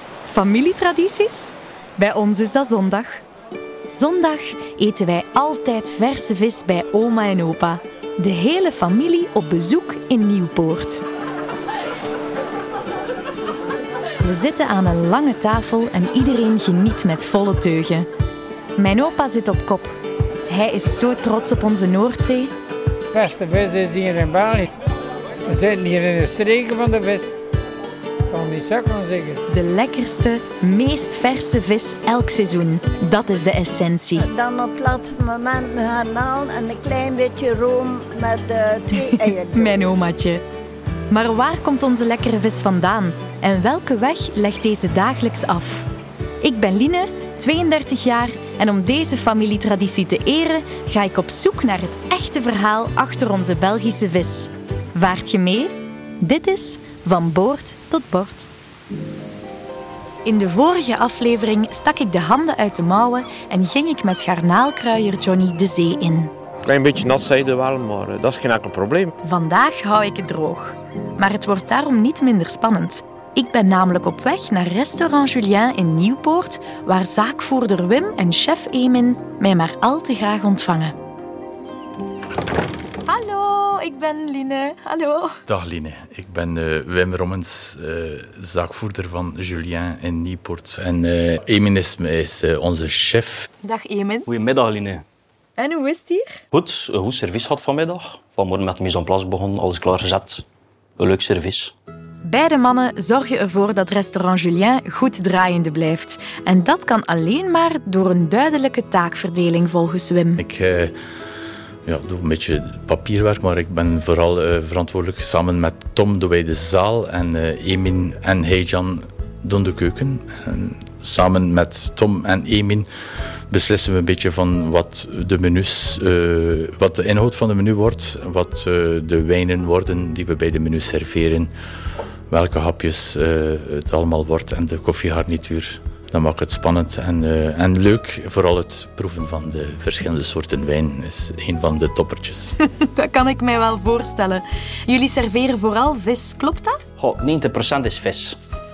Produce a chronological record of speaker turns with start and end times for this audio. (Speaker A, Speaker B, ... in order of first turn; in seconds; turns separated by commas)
Speaker A: 0.3-3.2, Speaker A: 3.9-11.0, Speaker A: 14.2-18.1, Speaker A: 18.8-20.0, Speaker A: 20.5-22.5, Speaker B: 23.1-24.7, Speaker B: 25.5-27.3, Speaker B: 28.3-29.4, Speaker A: 29.5-34.3, Speaker C: 34.2-39.9, Speaker A: 39.1-40.4, Speaker A: 41.1-45.9, Speaker A: 46.4-58.5, Speaker A: 60.2-66.3, Speaker D: 66.7-69.1, Speaker A: 69.2-81.0, Speaker A: 83.1-85.3, Speaker E: 85.5-93.5, Speaker A: 93.7-94.3, Speaker F: 94.3-95.0, Speaker A: 95.6-96.4, Speaker F: 96.5-100.4, Speaker F: 101.0-101.7, Speaker A: 102.2-110.4, Speaker E: 110.4-110.9, Speaker E: 111.8-122.9, Speaker E: 123.5-131.5, Speaker E: 132.3-142.6, Speaker A: 142.7-146.8, Speaker F: 147.0-148.4